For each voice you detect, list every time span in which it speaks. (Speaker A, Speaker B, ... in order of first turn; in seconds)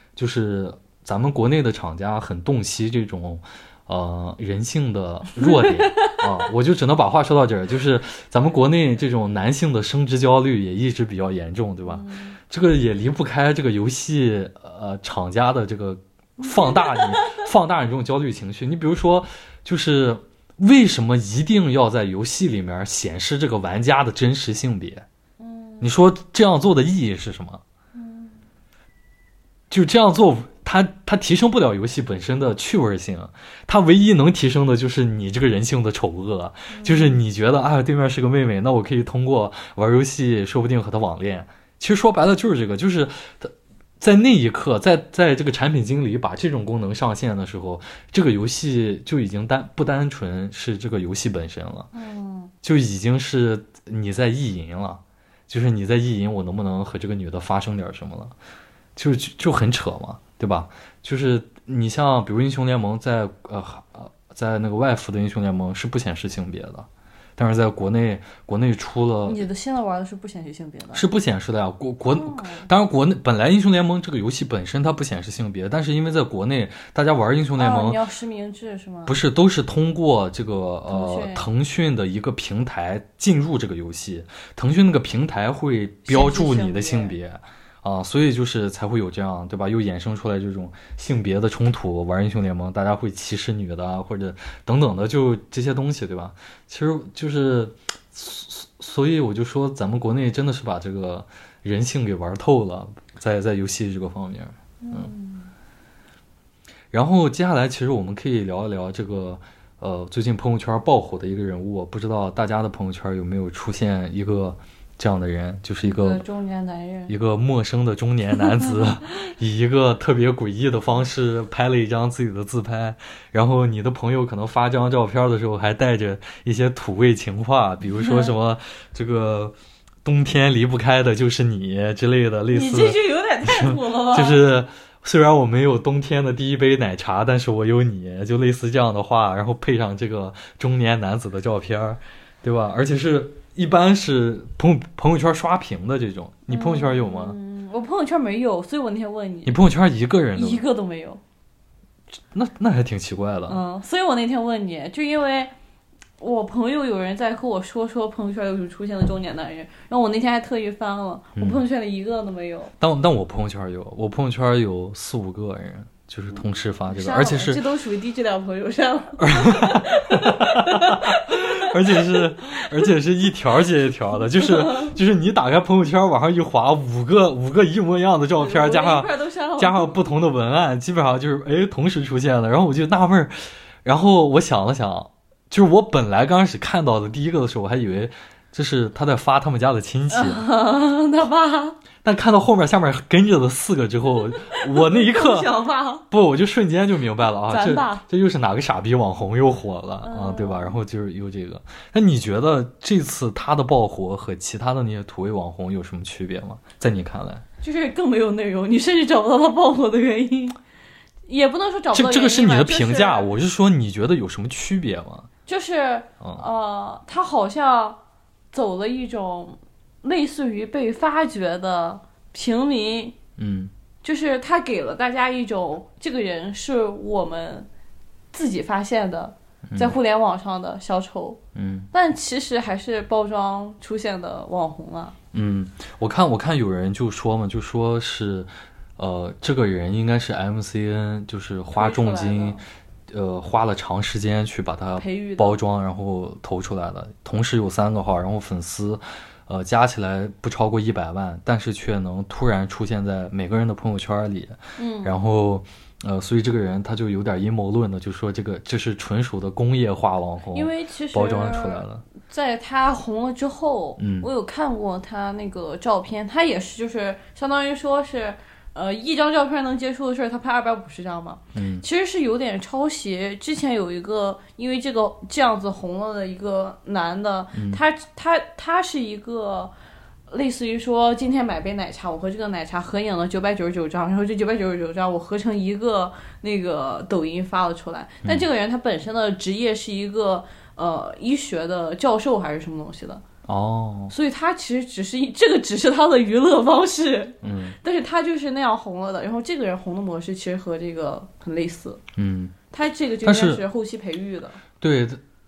Speaker A: 0.2-25.1, 25.8-27.6, 29.7-51.9, 52.6-58.3, 59.0-69.5, 70.9-78.0, 79.1-105.1, 106.9-116.2, 117.1-147.4, 149.4-150.7, 152.3-153.6, 161.4-161.6, 162.8-167.6, 169.2-183.3, 183.8-190.4, 192.0-195.6, 196.1-207.4, 211.9-215.3, 216.2-216.5, 223.4-223.7, 229.7-229.9, 231.6-231.9, 235.3-242.6, 243.1-262.0, 264.0-264.3, 271.6-271.9, 277.5-277.8, 293.5-294.1, 297.4-297.8, 302.2-302.6, 303.2-303.6, 304.8-305.2
Speaker B: 5.4-6.2, 11.9-12.4, 16.4-17.4, 25.4-25.9, 27.9-28.4, 36.7-37.2, 51.9-52.5, 69.2-71.1, 72.1-72.7, 77.6-79.2, 80.9-81.5, 86.1-87.2, 104.8-105.5, 115.8-117.1, 127.9-128.3, 132.5-134.5, 146.5-149.6, 150.3-151.2, 153.5-155.5, 156.2-162.7, 166.9-172.8, 174.4-174.9, 178.4-180.0, 190.1-191.8, 194.4-196.1, 197.5-198.0, 200.0-200.8, 207.6-210.6, 211.3-213.3, 215.5-218.0, 218.5-223.2, 224.0-227.7, 228.3-231.4, 231.9-235.2, 241.7-242.6, 245.0-245.6, 254.8-255.2, 260.5-279.7, 280.3-293.2, 294.1-302.0, 302.7-304.6